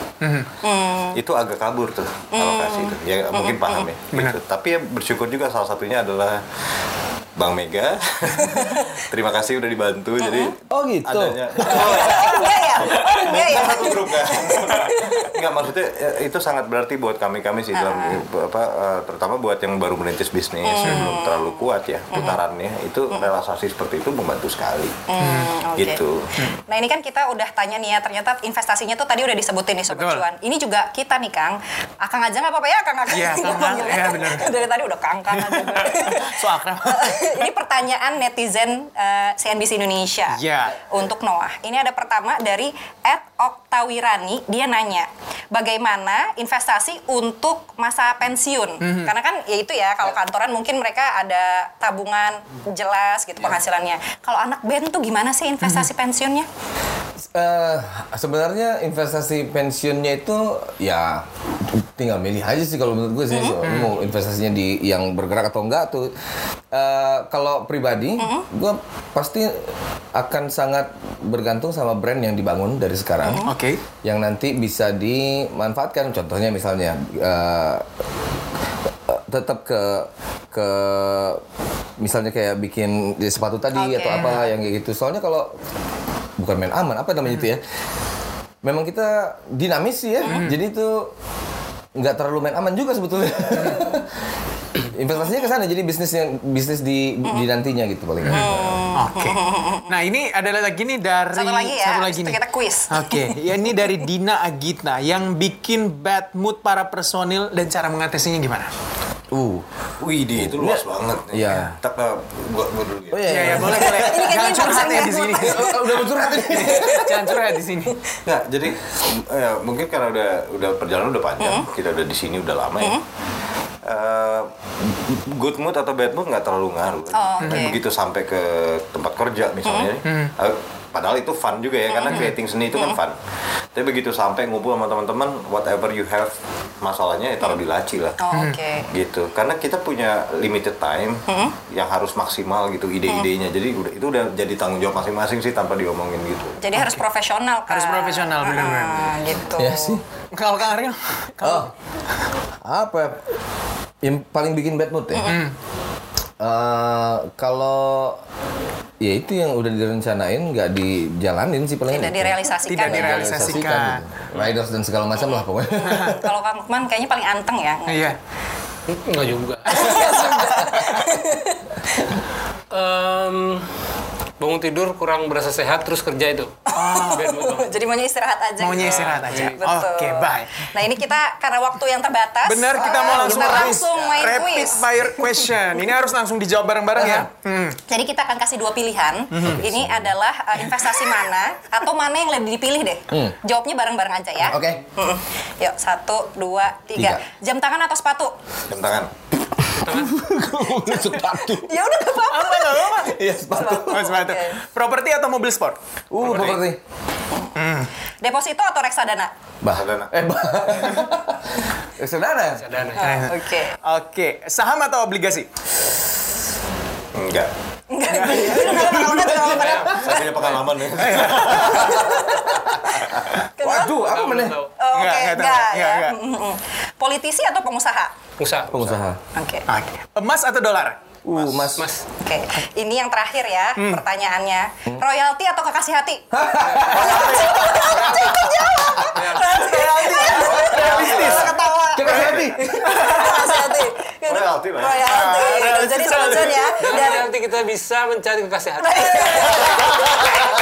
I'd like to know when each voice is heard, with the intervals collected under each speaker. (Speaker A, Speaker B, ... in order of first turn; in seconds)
Speaker A: 0.2-0.5, 4.1-4.4, 20.8-21.1, 25.2-25.6, 29.9-30.3, 33.1-34.6, 35.3-37.4, 40.3-40.8, 48.8-49.1, 63.6-64.0, 73.4-73.8, 90.2-90.6, 98.2-108.7, 113.2-118.0, 127.4-127.7, 130.0-130.3, 138.3-138.6, 146.7-147.0, 147.7-149.2, 150.3-151.7, 155.2-155.5, 162.6-164.0, 165.8-166.2, 167.8-168.2, 170.1-170.6, 176.7-177.3, 178.6-180.7, 182.4-187.8, 189.3-189.7, 202.2-203.2, 203.9-205.8, 207.5-207.9, 213.0-215.5, 218.1-219.0, 220.9-221.9, 224.9-226.2, 229.7-231.0, 233.8-234.0, 239.5-243.8
Speaker B: 0.6-1.2, 2.3-3.9, 8.4-9.0, 10.2-10.5, 11.6-15.4, 17.7-18.2, 20.6-22.4, 25.1-26.0, 26.7-56.5, 63.3-63.6, 68.2-68.5, 73.2-73.5, 83.7-84.4, 90.2-90.5, 98.3-99.9, 101.3-103.3, 113.6-117.2, 121.4-121.7, 127.1-127.8, 129.7-129.9, 131.9-133.0, 138.2-138.9, 141.3-141.5, 146.6-150.0, 161.9-163.6, 165.2-168.1, 169.6-171.8, 176.7-185.4, 187.9-198.3, 201.4-204.6, 208.2-209.3, 213.0-213.8, 217.9-220.5, 221.8-222.6, 223.6-224.0, 224.8-228.1, 229.3-229.7, 232.2-247.3, 248.8-250.4
Speaker C: 1.1-6.4, 7.3-26.2, 110.0-113.6, 118.2-123.0, 123.8-133.2, 133.7-138.2, 138.9-146.6, 198.7-199.1, 206.2-206.6, 209.7-210.1, 217.1-217.5, 219.8-222.2, 236.8-237.6, 240.2-241.6, 244.3-246.7, 249.7-250.4
Speaker D: 10.7-12.0, 57.3-66.1, 66.7-73.5, 74.0-77.8, 79.1-81.4, 82.0-85.5, 86.4-87.6, 88.6-91.1, 92.0-94.1, 94.8-98.8, 109.3-109.6, 110.3-111.8, 113.1-114.6, 115.3-117.3, 149.5-150.0, 151.4-151.7, 152.6-153.2, 154.0-155.4, 156.4-158.2, 159.0-166.2, 186.9-187.3, 189.4-190.1, 193.1-193.4, 194.4-194.8, 196.9-197.2, 199.5-201.8, 203.0-204.1, 206.1-206.8, 209.6-212.6, 218.2-219.9, 223.6-224.6, 228.7-229.2, 231.2-231.9, 236.3-237.8, 241.9-243.3
Speaker E: 168.9-170.0, 172.7-173.7, 174.4-177.7, 178.8-179.7, 199.7-200.1, 212.5-213.3, 219.4-220.3, 223.8-224.8, 228.4-228.9, 231.8-232.1, 236.5-240.2, 246.8-249.7